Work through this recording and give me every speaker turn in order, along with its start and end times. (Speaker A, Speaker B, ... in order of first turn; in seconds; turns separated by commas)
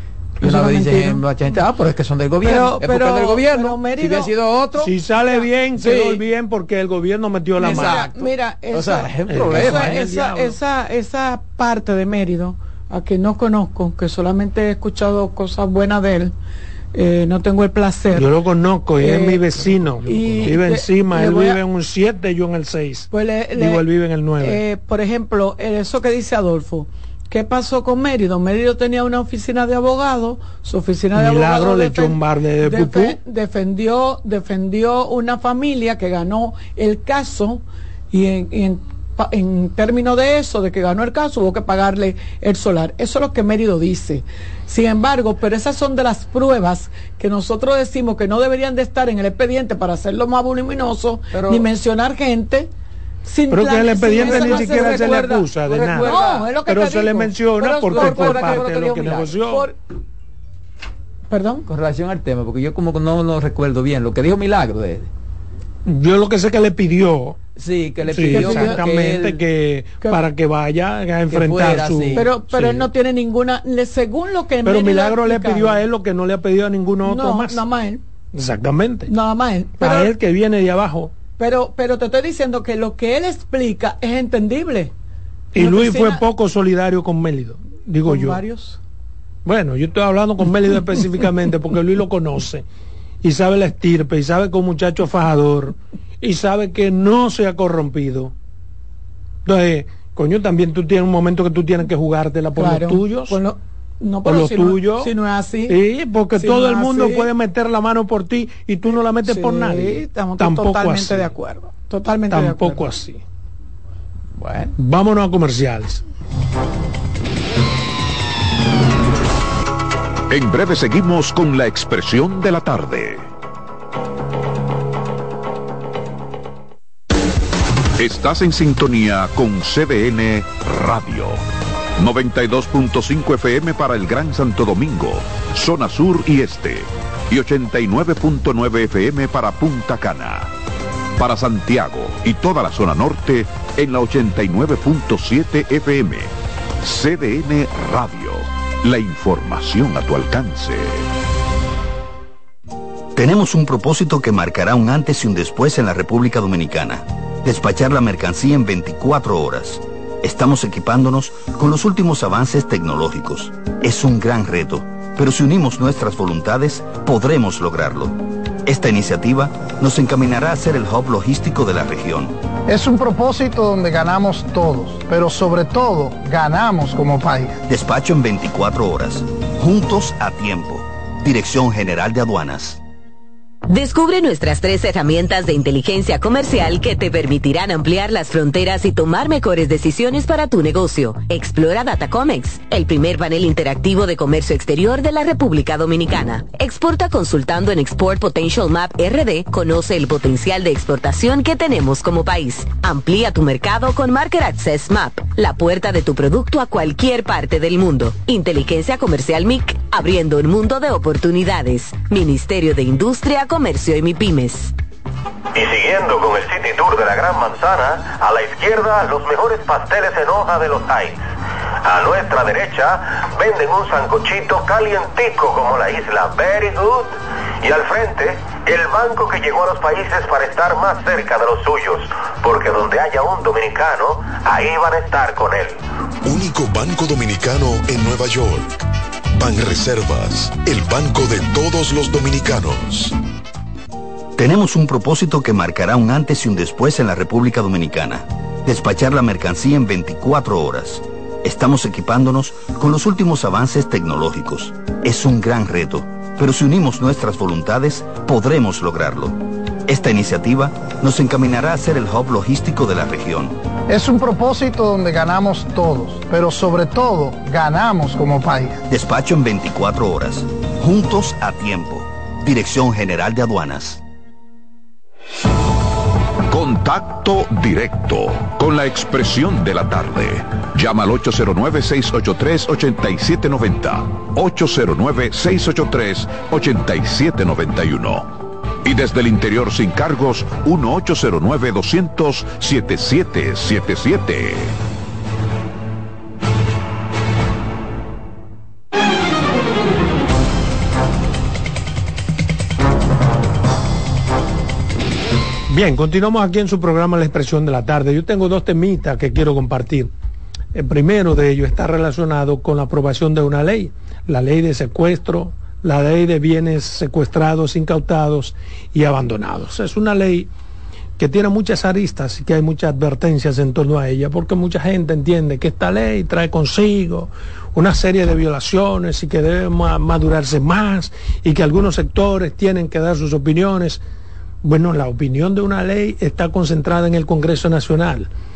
Speaker A: 0.4-4.9, Speaker B: 0.4-1.2, Speaker B: 2.4-4.3, Speaker C: 4.8-8.1, Speaker A: 5.8-6.2, Speaker B: 7.6-16.3, Speaker A: 7.6-10.2, Speaker C: 9.3-10.5, Speaker B: 16.9-18.3, Speaker C: 18.1-24.6, Speaker B: 19.0-19.4, Speaker B: 20.1-21.6, Speaker B: 23.1-23.8, Speaker B: 24.4-52.7, Speaker C: 31.1-33.2, Speaker A: 51.3-51.7, Speaker B: 53.2-55.5, Speaker C: 53.5-56.1, Speaker A: 54.1-55.1, Speaker A: 55.7-56.5, Speaker B: 56.0-58.7, Speaker C: 56.7-59.6, Speaker A: 57.9-59.4, Speaker B: 59.5-59.8, Speaker B: 61.3-61.7, Speaker A: 61.7-65.1, Speaker C: 65.9-67.4, Speaker A: 67.6-69.4, Speaker C: 68.1-72.8, Speaker B: 68.3-68.8, Speaker A: 71.3-72.6, Speaker B: 72.1-75.8, Speaker C: 74.7-77.6, Speaker B: 77.0-78.0, Speaker C: 78.3-79.1, Speaker B: 79.1-80.1, Speaker C: 79.8-81.1, Speaker B: 81.4-84.9, Speaker C: 85.5-88.4, Speaker B: 85.6-86.2, Speaker B: 88.1-88.8, Speaker C: 89.5-92.7, Speaker C: 93.2-98.3, Speaker C: 99.5-103.4, Speaker B: 102.6-105.8, Speaker C: 104.2-105.1, Speaker C: 105.7-111.2, Speaker B: 106.4-107.3, Speaker B: 109.3-112.8, Speaker C: 112.3-113.2, Speaker A: 114.4-114.7, Speaker C: 114.8-116.0, Speaker D: 120.3-123.3, Speaker D: 128.0-131.4, Speaker D: 132.0-140.5, Speaker D: 141.2-151.1, Speaker E: 153.2-168.1, Speaker E: 168.7-172.3, Speaker F: 172.7-177.6, Speaker E: 177.7-182.8, Speaker G: 183.7-214.7, Speaker H: 215.5-221.3, Speaker H: 221.8-235.8, Speaker I: 236.2-238.8, Speaker I: 239.4-243.1, Speaker E: 244.4-263.6, Speaker F: 263.9-268.8, Speaker E: 268.9-274.0, Speaker D: 276.5-288.3, Speaker D: 288.8-294.8, Speaker C: 305.7-310.1, Speaker C: 310.8-320.5, Speaker C: 321.2-334.0, Speaker C: 334.6-338.3